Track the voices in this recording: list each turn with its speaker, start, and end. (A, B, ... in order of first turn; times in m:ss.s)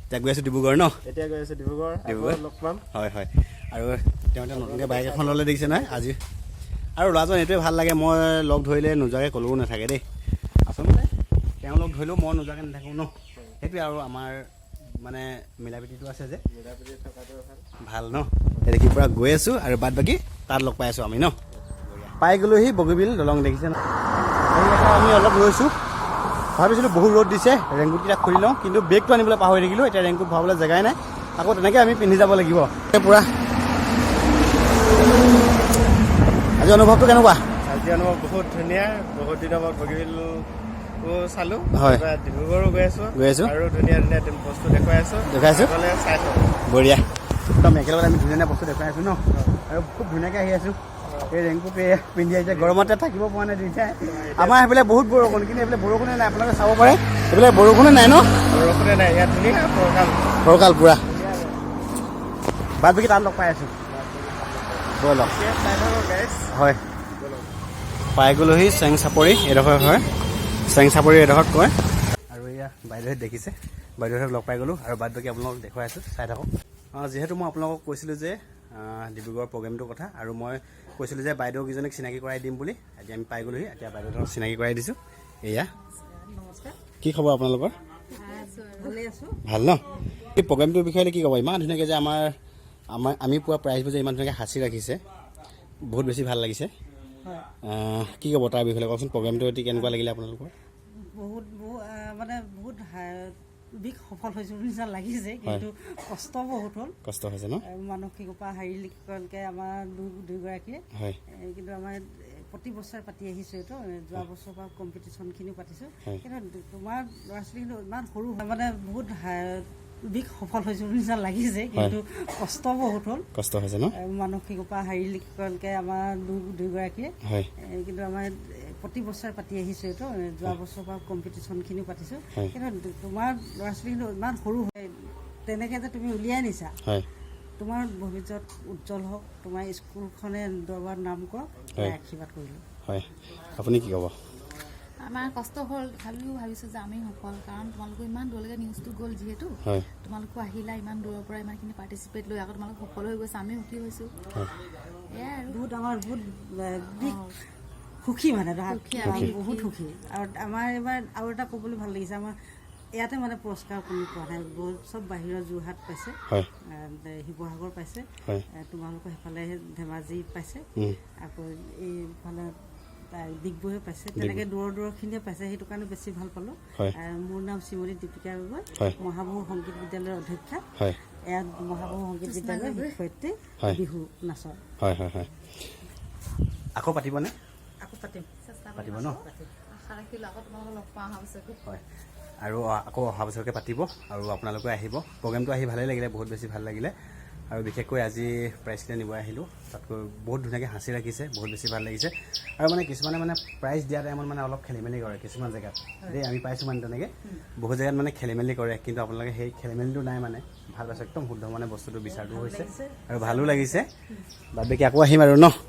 0:00.1-0:01.0 A
0:01.0-0:02.8 B
0:02.0-0:06.2 A
0:04.5-0:06.0 B
0:07.0-0:10.0 A
0:10.7-0:11.1 A
0:11.6-0:14.4 A
0:15.0-0:16.4 A
0:16.5-0:17.6 B
0:17.8-0:21.3 A
0:22.0-0:23.8 A
0:24.5-0:25.7 A
0:26.6-0:33.3 A
0:36.6-0:37.4 A
0:37.6-0:40.4 B
0:41.0-0:46.6 B
0:41.7-0:42.0 A
0:43.1-0:43.5 A
0:45.2-0:45.7 A
0:46.7-0:50.8 A
0:51.0-0:51.3 B
0:51.3-0:58.4 A
0:52.4-0:52.9 B
0:54.0-0:54.6 B
0:58.5-1:00.4 B
1:00.4-1:01.0 A
1:01.0-1:01.7 B
1:02.8-1:03.8 A
1:03.9-1:06.5 B
1:04.9-1:05.4 A
1:06.5-1:06.8 A
1:07.2-1:07.5 B
1:08.1-1:10.0 A
1:10.7-1:11.7 A
1:12.3-1:25.7 A
1:26.0-1:26.8 C
1:27.0-1:27.8 A
1:28.1-1:29.0 D
1:28.2-1:29.4 C
1:29.4-1:32.3 A
1:32.9-1:35.0 A
1:35.9-1:36.7 A
1:37.6-1:40.5 A
1:41.0-1:47.0 C
1:47.0-1:47.6 A
1:47.6-2:03.3 C
2:03.3-2:03.9 A
2:03.9-2:16.8 C
2:07.2-2:07.5 A
2:17.6-2:22.6 C
2:22.8-2:24.1 A
2:25.0-2:34.1 D
2:35.1-2:35.6 D
2:35.5-2:37.3 C
2:37.0-2:37.4 D
2:38.0-2:42.4 C
2:38.7-2:39.7 D
2:39.0-2:39.3 A
2:42.9-2:52.6 C
2:53.1-3:00.7 C
2:54.1-2:54.4 A
3:01.2-3:04.6 C
3:02.2-3:03.0 D
3:04.8-3:05.5 A
3:06.8-3:07.3 A
3:07.8-3:08.3 C
3:08.4-3:11.6 D
3:08.8-3:09.2 A
3:09.0-3:09.5 C
3:12.4-3:16.9 A
3:17.5-3:33.9 A
3:32.1-3:33.8 C
3:34.5-3:35.6 A